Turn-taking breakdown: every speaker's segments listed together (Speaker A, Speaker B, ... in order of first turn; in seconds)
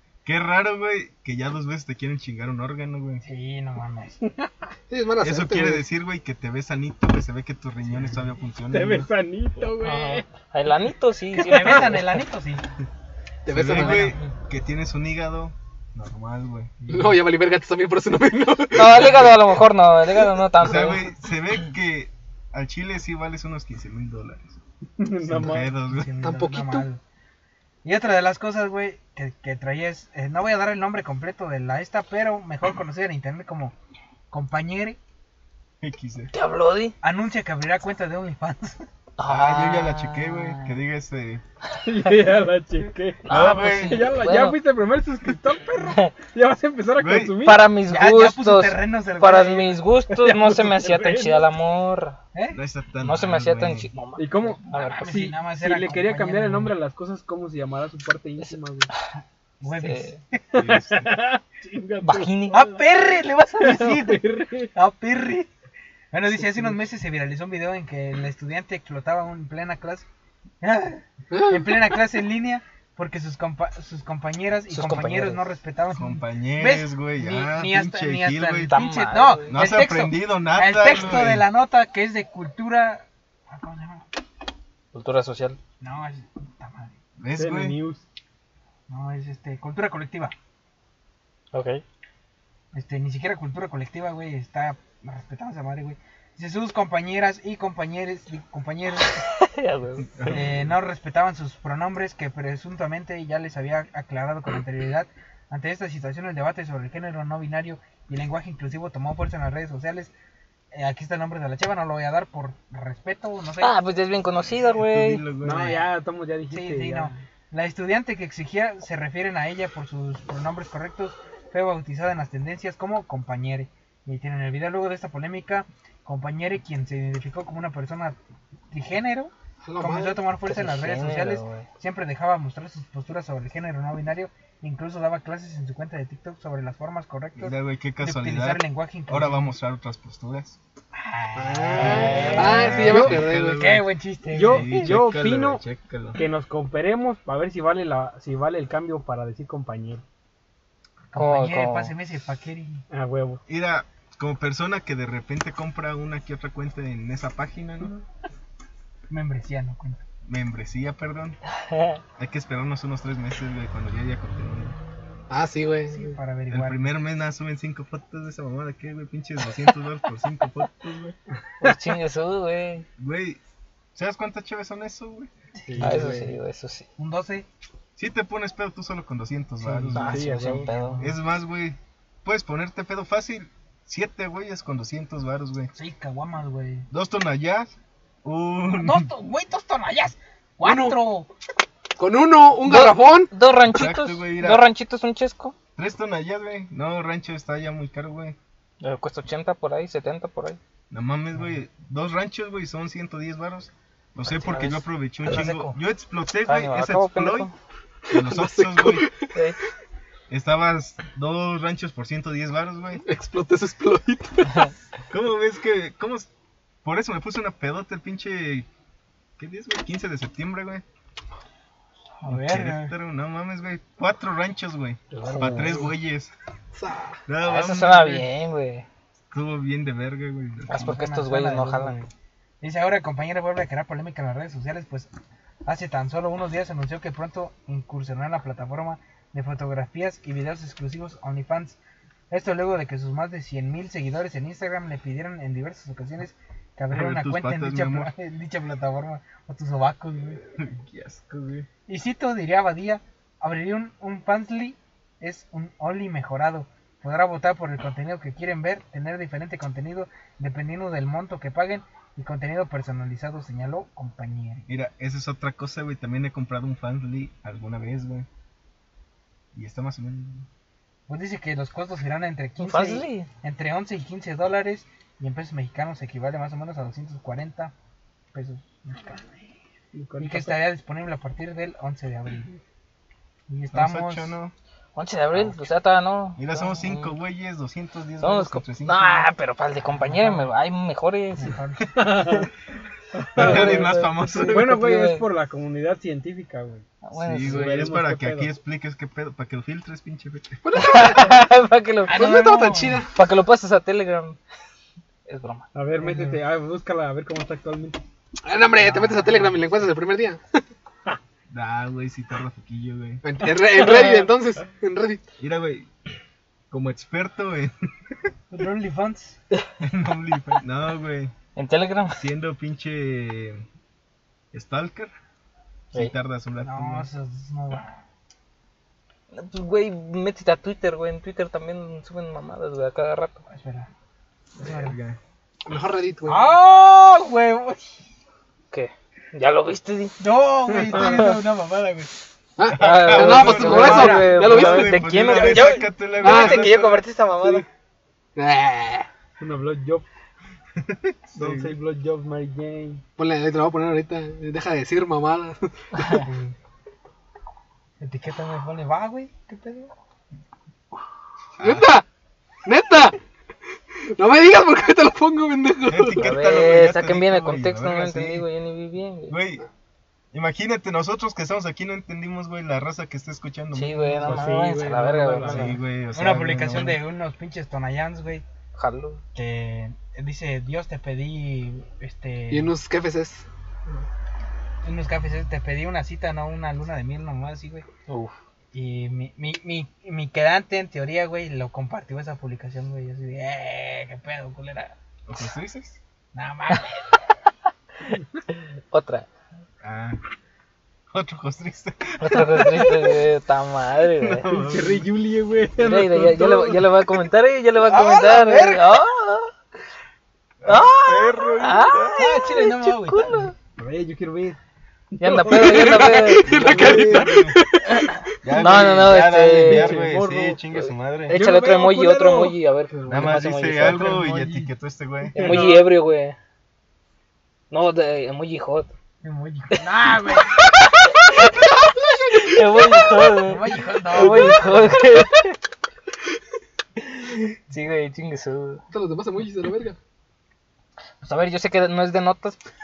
Speaker A: 0.2-3.2, 5.2-9.1, 13.5-17.1, 20.6-24.6, 25.2-26.1, 35.8-36.3, 39.2-41.4, 43.3-44.0, 47.0-47.4, 52.5-53.9, 60.5-61.2, 75.9-78.7, 79.5-81.5, 87.2-87.8, 100.1-100.7, 114.7-115.8, 137.4-140.6, 142.2-146.2, 153.5-157.9, 160.2-161.4, 162.2-164.8, 166.5-171.2, 173.0-173.4, 173.9-175.3, 178.0-185.7, 186.9-189.1, 193.7-194.7, 195.8-198.4, 200.9-207.5, 208.1-209.1, 210.3-213.0, 215.1-216.3, 216.8-218.7, 219.4-220.8, 222.2-226.3, 227.3-228.3, 229.3-231.0, 246.9-248.1, 250.5-251.7, 264.7-268.3, 269.5-270.5, 283.7-284.5, 286.4-289.2, 293.4-294.8, 297.1-300.6, 311.5-313.2, 315.4-315.9, 316.7-318.3, 319.8-321.3, 322.1-323.6, 324.5-325.1, 325.9-327.1, 334.6-335.2, 342.7-347.0, 350.8-351.8, 361.6-361.9, 365.9-368.4, 369.3-369.6, 370.3-374.4, 375.4-377.0, 395.3-396.0, 399.8-400.2, 401.1-403.1, 404.2-405.1, 410.6-412.2, 416.4-417.6, 418.4-421.4, 423.1-425.6
Speaker B: 3.2-4.3, 11.3-12.6, 25.8-27.0, 27.8-33.7, 34.3-35.0, 37.0-38.9, 47.9-49.8, 52.3-52.6, 54.7-56.7, 59.6-60.5, 62.5-64.2, 64.7-65.5, 66.1-70.0, 70.6-84.1, 85.8-87.0, 88.9-90.3, 92.7-99.3, 100.2-110.1, 110.7-113.7, 115.5-115.9, 116.5-128.2, 128.7-139.5, 140.9-144.9, 151.1-152.8, 159.1-160.0, 165.9-166.9, 175.6-176.1, 177.0-177.4, 180.5-181.1, 185.7-186.9, 188.7-191.3, 205.2-205.8, 222.3-222.9, 230.8-232.1, 232.6-235.1, 235.6-241.8, 242.3-250.4, 251.9-264.6, 271.1-277.7, 278.3-279.4, 280.2-282.6, 283.5-284.3, 290.0-290.5, 291.4-292.1, 302.1-303.0, 306.0-306.4, 308.8-309.6, 318.5-319.4, 326.6-328.0, 333.5-333.9, 334.6-334.9, 336.3-338.0, 340.2-342.1, 343.4-344.4, 345.3-347.6, 356.1-356.5, 358.0-359.9, 376.1-378.4, 379.3-382.7, 384.8-387.9, 388.7-394.9, 396.3-397.2, 407.8-409.0, 412.1-413.5, 423.9-424.6, 429.2-430.5, 433.4-434.9
Speaker C: 4.9-5.8, 13.4-14.2, 16.9-19.4, 26.2-26.9, 71.3-71.9, 129.6-130.2, 141.3-143.7, 165.3-166.2, 190.6-191.0, 192.0-193.3, 208.1-209.3, 213.0-214.7, 226.7-227.2, 300.6-301.4, 302.1-303.1, 308.4-310.6, 313.2-315.2, 335.6-336.5, 342.6-345.0, 346.2-346.7, 348.4-349.1, 353.2-356.1, 361.6-362.1, 362.6-363.2, 364.1-366.3, 382.5-383.4, 415.5-418.2, 438.9-440.0
Speaker D: 8.7-10.2, 25.0-25.7, 41.8-47.7, 50.1-51.5, 54.1-58.9, 60.5-62.8, 63.6-64.7, 87.3-88.0, 115.4-117.2, 144.3-145.6, 146.1-150.0, 152.9-153.4, 175.7-176.3, 179.7-180.7, 222.3-222.7, 225.1-225.9, 279.9-280.6, 291.9-292.5, 293.1-296.9, 297.4-298.5, 305.7-308.0, 349.4-350.1, 351.3-353.0, 374.2-375.8, 404.5-406.9, 413.8-414.6, 415.1-417.2, 419.6-420.6, 421.3-423.3, 425.4-425.9
Speaker E: 9.8-12.2, 13.8-14.2, 18.7-21.1, 36.3-37.0, 39.2-40.8, 43.2-44.6, 45.8-46.1, 47.4-52.2, 53.0-55.1, 59.6-60.2, 62.0-62.6, 74.7-75.4, 78.7-79.5, 84.9-85.6, 91.5-91.8, 99.0-100.3, 113.6-115.2, 130.4-131.7, 141.8-142.9, 151.1-151.9, 161.5-162.0, 171.6-172.8, 175.8-176.9, 179.9-181.1, 192.6-195.5, 198.8-200.6, 204.2-204.8, 206.4-207.5, 227.4-228.8, 230.7-232.1, 272.6-273.3, 284.9-287.1, 288.2-291.6, 293.4-295.2, 297.0-297.9, 300.7-302.2, 303.1-304.4, 305.3-305.7, 313.8-314.1, 321.6-322.2, 329.3-333.4, 338.7-340.1, 340.9-341.4, 342.8-345.8, 355.9-356.2, 366.2-369.4, 373.7-375.8, 378.7-379.2, 388.1-388.3, 398.1-399.3, 402.2-404.5, 405.8-409.5, 410.6-413.5, 415.2-416.7, 417.9-420.0, 421.3-424.1, 425.4-426.4, 427.7-428.9, 429.7-435.6, 437.0-438.8, 441.2-442.6